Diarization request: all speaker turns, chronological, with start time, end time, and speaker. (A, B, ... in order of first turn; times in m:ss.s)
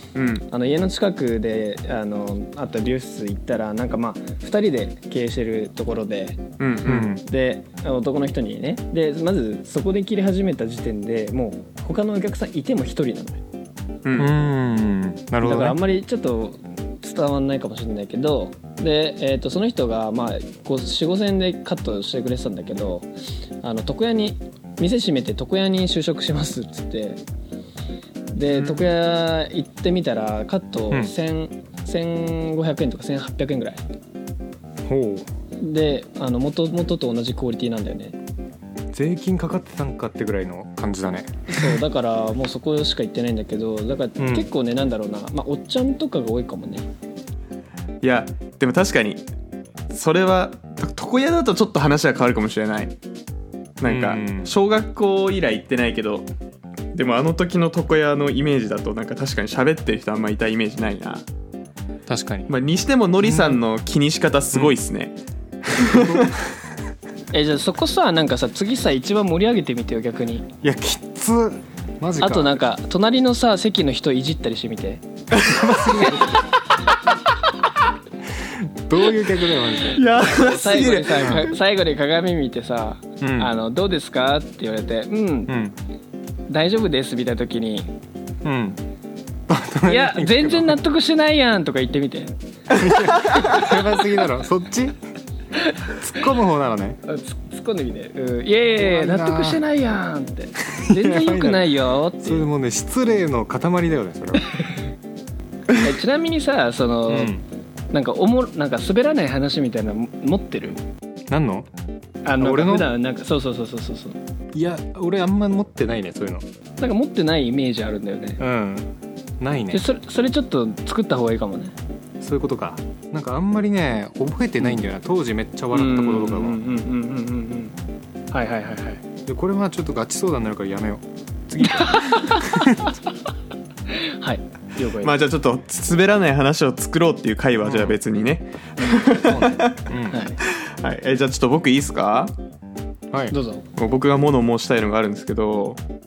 0:00.2-0:00.5 A
0:00.5-0:06.4 B
0:06.6-0:07.1 A
0:06.9-0:07.2 C
0:07.2-0:13.4 B
0:14.0-0:14.3 A
0:14.2-0:15.8 C
0:15.4-0:23.1 B
0:23.6-0:27.2 B
0:28.3-0:33.8 B
0:28.5-0:28.8 A
0:34.9-0:35.3 C
0:35.6-0:38.2 B
0:38.9-0:41.8 C
0:41.5-0:46.9 B
0:44.2-0:44.5 C
0:48.0-0:49.2 A
0:49.9-0:52.9 A
0:53.8-0:56.3 A
0:53.8-0:54.5 C
0:56.9-1:01.2 A
1:02.1-1:02.5 C
1:02.5-1:05.2 A
1:03.2-1:03.6 C
1:05.7-1:06.3 A
1:05.8-1:06.4 C
1:07.3-1:10.5 B
1:10.6-1:12.6 C
1:12.2-1:15.0 B
1:15.4-1:16.4 C
1:15.9-1:16.3 B
1:18.4-1:20.0 C
1:19.9-1:21.5 A
1:20.1-1:25.6 B
1:23.2-1:23.5 C
1:25.5-1:25.8 C
1:26.5-1:27.9 B
1:28.4-1:28.8 C
1:29.5-1:30.8 C
1:29.9-1:32.3 B
1:32.7-1:35.0 C
1:33.2-1:33.5 A
1:35.9-1:37.0 C
1:37.0-1:42.4 B
1:38.8-1:39.6 C
1:40.8-1:44.6 C
1:45.7-1:47.4 B
1:47.1-1:47.4 C
1:47.9-1:50.8 B
1:51.3-1:51.7 C
1:52.2-1:54.2 B
1:52.4-1:52.9 C
1:54.5-1:56.4 C
1:56.8-1:58.4 B
1:58.4-1:59.8 C
1:59.7-2:01.7 B
2:02.2-2:06.6 C
2:05.7-2:07.8 B
2:08.3-2:09.0 B
2:09.3-2:12.9 C
2:11.6-2:12.9 B
2:13.9-2:15.1 B
2:15.0-2:19.8 A
2:17.6-2:18.0 C
2:19.2-2:20.2 C
2:20.1-2:20.4 B
2:20.4-2:22.3 A
2:23.3-2:23.6 B
2:23.8-2:25.8 A